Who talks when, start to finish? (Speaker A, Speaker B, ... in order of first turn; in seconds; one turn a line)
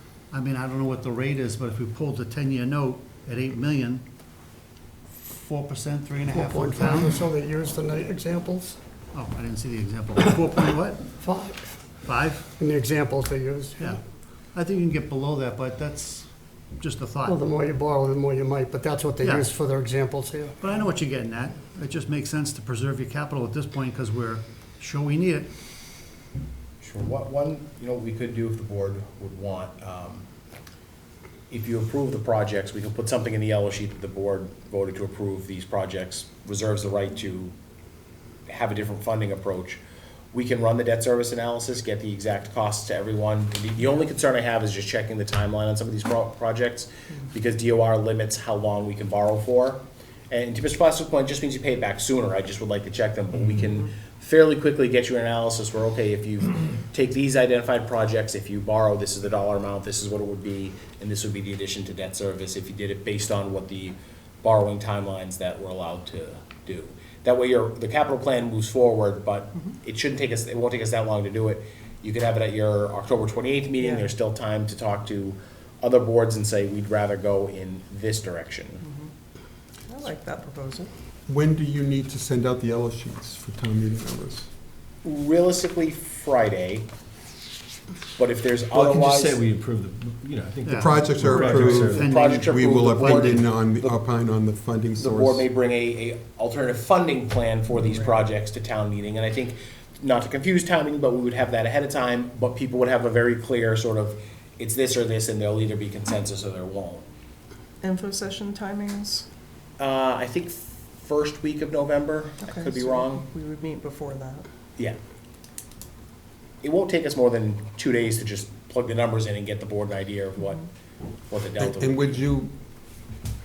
Speaker A: 0.3-4.0
Speaker A: 5.2-7.2
Speaker B: 6.3-8.8
Speaker A: 9.1-11.1
Speaker B: 11.2-11.8
Speaker A: 12.1-12.5
Speaker B: 12.6-14.0
Speaker A: 14.5-17.4
Speaker B: 17.2-20.5
Speaker A: 19.2-19.5
Speaker A: 20.6-25.5
Speaker C: 26.8-30.2
Speaker C: 31.5-37.5
Speaker C: 38.5-39.8
Speaker C: 40.3-78.8
Speaker D: 73.8-74.2
Speaker D: 78.8-79.1
Speaker D: 79.9-80.9
Speaker E: 81.3-84.5
Speaker C: 85.0-86.9
Speaker C: 88.2-89.4
Speaker F: 88.7-92.3
Speaker A: 90.6-93.4
Speaker E: 90.8-95.4
Speaker C: 91.9-94.0
Speaker C: 95.0-107.0
Speaker D: 107.8-109.2
Speaker C: 109.8-113.2
Speaker D: 112.4-114.5
Speaker C: 116.6-120.6
Speaker C: 121.3-122.2
Speaker E: 121.6-122.5